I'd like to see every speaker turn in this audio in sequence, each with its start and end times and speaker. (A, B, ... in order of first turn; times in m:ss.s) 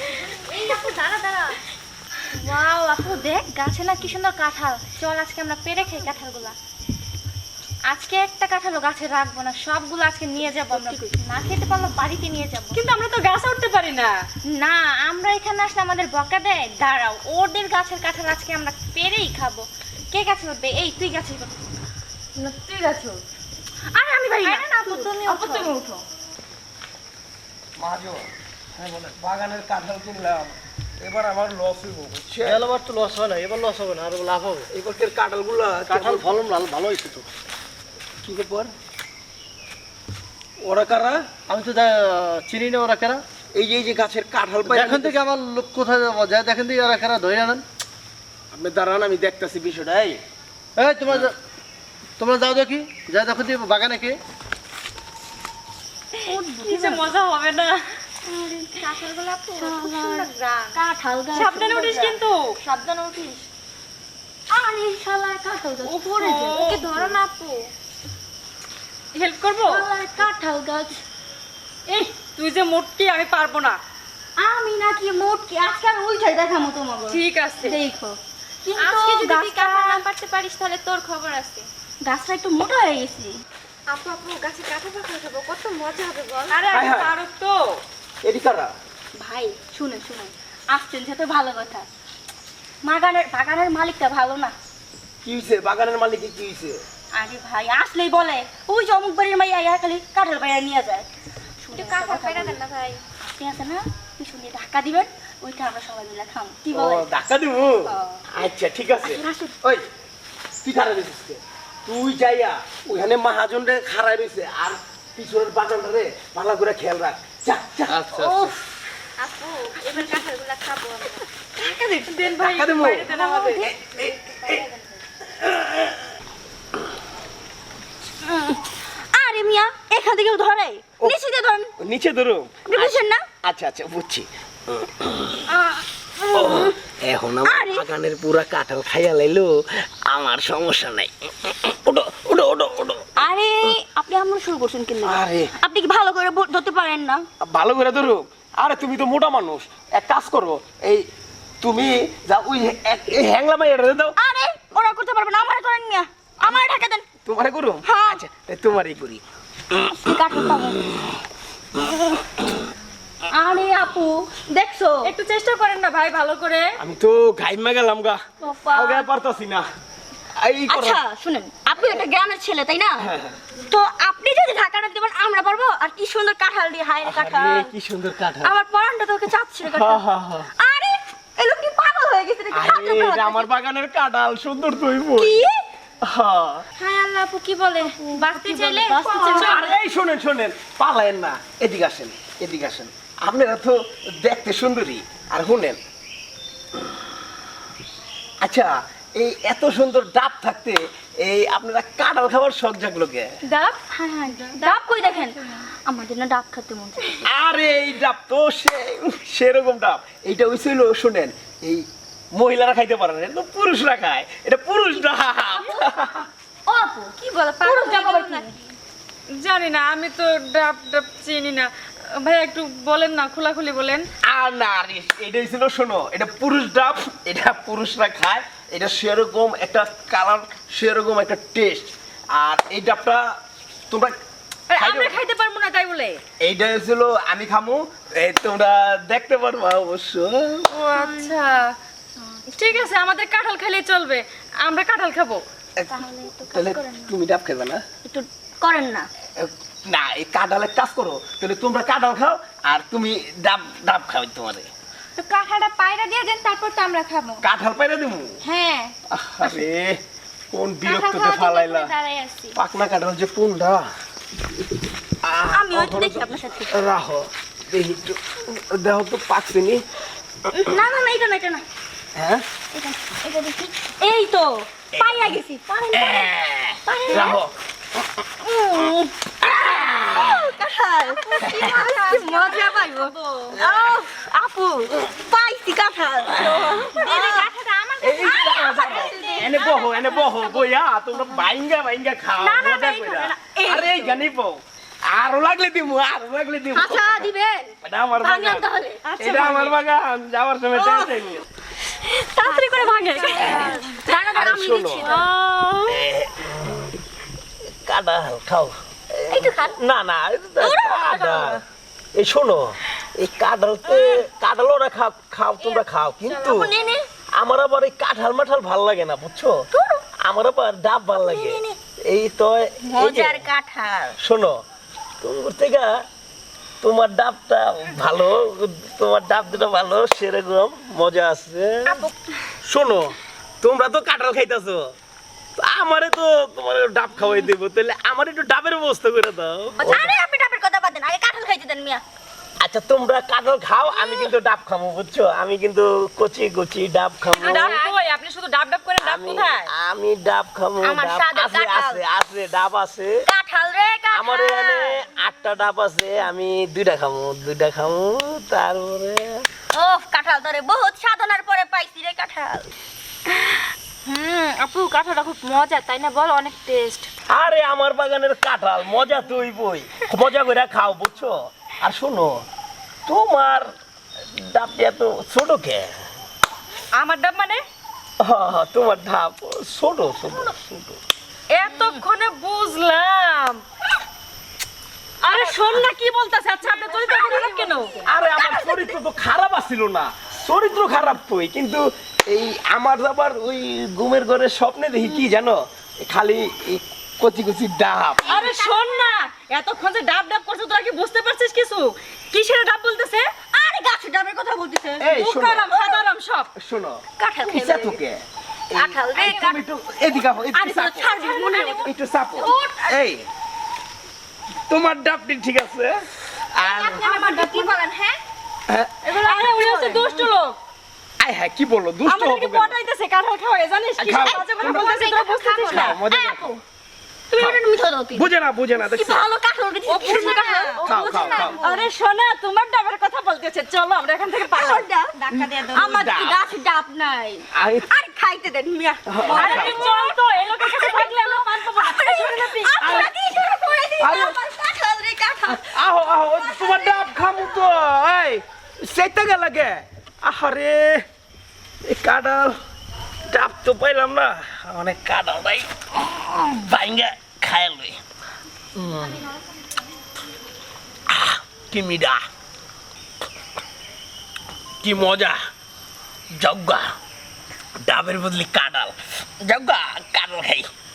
0:00.2-0:01.6 A
0:02.3-0:06.6 A
0:07.9-0:12.8 A
0:10.7-0:11.1 B
0:12.7-0:14.2 C
0:14.4-0:21.6 A
0:22.4-0:23.2 C
0:23.9-0:26.0 C
0:24.4-0:25.7 A
0:24.8-0:25.2 B
0:27.8-0:28.2 D
0:28.8-0:32.6 D
0:32.4-0:34.7 E
0:34.7-0:36.3 D
0:35.9-0:37.2 E
0:38.2-0:38.7 D
0:40.6-0:41.3 D
0:41.4-0:43.2 E
0:43.5-0:45.2 D
0:44.7-0:47.6 E
0:48.5-0:50.2 D
0:50.8-0:51.3 E
0:52.2-0:54.2 E
0:56.2-0:57.1 B
0:56.2-0:57.9 C
0:58.3-0:58.9 B
0:58.7-1:00.8 A
0:59.5-1:02.2 B
1:01.3-1:02.4 C
1:02.6-1:03.4 A
1:04.5-1:07.2 B
1:05.8-1:06.9 C
1:06.6-1:07.7 A
1:09.1-1:09.8 C
1:09.6-1:11.0 B
1:11.9-1:13.8 C
1:14.4-1:20.0 B
1:17.1-1:17.8 C
1:18.8-1:21.7 A
1:22.0-1:23.4 B
1:23.9-1:26.8 A
1:26.5-1:27.8 C
1:26.7-1:27.1 D
1:28.2-1:28.7 D
1:29.2-1:31.9 B
1:32.8-1:34.5 B
1:35.2-1:36.8 D
1:37.1-1:41.1 B
1:41.6-1:42.6 B
1:41.7-1:43.0 A
1:43.4-1:47.1 B
1:46.7-1:49.8 D
1:47.9-1:48.2 B
1:49.0-1:49.5 B
1:50.6-1:58.5 D
1:58.1-1:58.6 B
1:59.2-2:01.2 A
1:59.8-2:00.2 B
2:01.6-2:01.9 B
2:01.6-2:03.7 C
2:02.4-2:04.7 D
2:03.1-2:03.7 B
2:04.4-2:04.8 B
2:05.3-2:06.0 D
2:08.2-2:11.7 B
2:11.8-2:15.4 D
2:12.6-2:13.2 B
2:15.5-2:16.8 B
2:16.3-2:23.7 D
2:17.4-2:17.9 B
2:23.2-2:27.2 B
2:25.0-2:25.5 D
2:27.4-2:31.1 D
2:31.6-2:34.2 D
2:34.2-2:37.1 B
2:36.4-2:36.6 D
2:37.2-2:39.2 D
2:37.8-2:38.2 B
2:39.8-2:40.9 B
2:43.3-2:45.1 B
2:45.0-2:46.7 C
2:46.8-2:49.6 D
2:48.4-2:49.1 B
2:50.4-2:51.0 D
2:50.7-2:53.1 B
2:51.7-2:52.0 D
2:53.0-2:53.3 D
2:53.7-2:57.7 B
2:57.0-2:58.5 D
2:58.4-3:00.0 B
2:59.6-3:00.5 D
3:00.6-3:03.5 B
3:02.5-3:05.4 D
3:05.2-3:05.6 B
3:06.0-3:06.6 D
3:06.8-3:09.7 B
3:07.8-3:09.6 A
3:08.3-3:09.6 C
3:09.3-3:15.8 D
3:18.4-3:23.3 D
3:23.5-3:23.8 A
3:23.9-3:27.2 B
3:24.3-3:25.6 A
3:27.2-3:36.3 D
3:35.5-3:35.9 B
3:36.7-3:38.6 B
3:37.2-3:38.5 A
3:39.4-3:44.1 C
3:44.2-3:53.2 D
3:53.9-3:54.2 D
3:54.7-3:56.2 C
3:54.8-3:55.2 D
3:56.4-4:00.7 D
4:00.7-4:01.7 C
4:00.9-4:01.3 B
4:02.5-4:05.4 C
4:05.8-4:07.8 D
4:05.9-4:07.1 B
4:08.0-4:09.1 B
4:09.4-4:14.7 D
4:15.2-4:17.4 A
4:17.4-4:18.4 D
4:18.4-4:18.9 B
4:19.1-4:20.0 D
4:20.5-4:21.9 D
4:20.8-4:22.6 A
4:22.5-4:23.9 D
4:25.2-4:29.8 D
4:25.5-4:26.8 B
4:30.5-4:31.6 B
4:32.2-4:32.4 D
4:32.7-4:36.3 B
4:34.9-4:35.4 D
4:35.9-4:37.5 D
4:36.8-4:37.4 B
4:38.4-4:39.1 B
4:39.4-4:40.4 D
4:40.1-4:47.5 B
4:41.2-4:43.6 A
4:41.4-4:41.9 D
4:43.5-4:44.0 D
4:46.3-4:46.9 D
4:46.9-4:50.6 A
4:48.0-4:57.3 D
4:48.3-4:49.7 B
4:52.4-4:53.2 A
4:53.3-4:54.2 B
4:56.7-4:59.5 B
4:57.8-5:01.4 D
4:59.1-4:59.7 C
5:02.0-5:03.8 C
5:02.4-5:05.3 B
5:04.3-5:05.1 D
5:05.0-5:06.0 C
5:05.9-5:06.5 D
5:07.8-5:11.6 D
5:09.3-5:09.8 B
5:10.6-5:11.6 B
5:12.1-5:16.7 D
5:15.6-5:16.7 C
5:16.4-5:17.0 B
5:17.3-5:19.6 D
5:19.7-5:20.0 B
5:20.2-5:23.5 D
5:21.2-5:21.8 B
5:22.8-5:24.2 B
5:24.2-5:24.6 D
5:25.2-5:26.0 D
5:26.8-5:32.1 D
5:32.6-5:34.9 D
5:35.6-5:40.1 D
5:39.8-5:42.0 B
5:42.6-5:47.8 D
5:43.9-5:44.3 B
5:47.3-5:47.8 B
5:47.4-5:49.7 C
5:49.0-5:53.1 D
5:50.8-5:52.0 B
5:53.2-5:55.0 B
5:54.1-5:59.4 D
5:59.7-6:02.7 B
6:04.0-6:05.5 C
6:04.2-6:07.1 A
6:07.3-6:12.4 D
6:13.0-6:13.7 D
6:14.3-6:15.9 D
6:16.9-6:17.6 C
6:18.2-6:21.0 D
6:21.5-6:23.6 C
6:25.2-6:28.0 C
6:25.3-6:25.8 B
6:26.8-6:28.9 B
6:28.0-6:38.3 D
6:38.2-6:38.9 B
6:38.2-6:43.3 C
6:43.5-6:45.1 B
6:45.0-6:45.7 D
6:45.1-6:46.5 C
6:46.6-6:53.2 D
6:47.2-6:48.0 B
6:48.7-6:49.6 B
6:50.5-6:52.9 B
6:51.2-6:51.9 C
6:54.7-6:57.1 D
6:56.6-6:58.1 B
6:57.1-6:57.8 A
6:58.7-6:58.9 D
6:59.1-7:00.1 A
6:59.1-7:00.1 B
6:59.2-7:00.6 C
7:01.2-7:02.8 D
7:02.0-7:06.0 C
7:04.0-7:04.9 D
7:04.2-7:06.6 B
7:05.6-7:06.5 D
7:07.3-7:08.3 B
7:08.1-7:09.3 D
7:08.9-7:11.8 B
7:09.8-7:14.8 C
7:10.0-7:11.6 D
7:10.2-7:11.9 A
7:14.3-7:25.8 B
7:15.2-7:15.7 A
7:15.3-7:16.4 D
7:17.5-7:17.9 D
7:19.1-7:19.9 D
7:19.2-7:22.8 C
7:22.8-7:23.4 D
7:24.0-7:24.4 D
7:25.5-7:31.0 D
7:26.3-7:27.6 B
7:31.8-7:32.5 D
7:33.3-7:38.0 D
7:38.7-7:39.2 D
7:41.1-7:42.2 D
7:44.8-7:45.4 D
7:46.3-7:46.9 D
7:47.8-7:50.6 D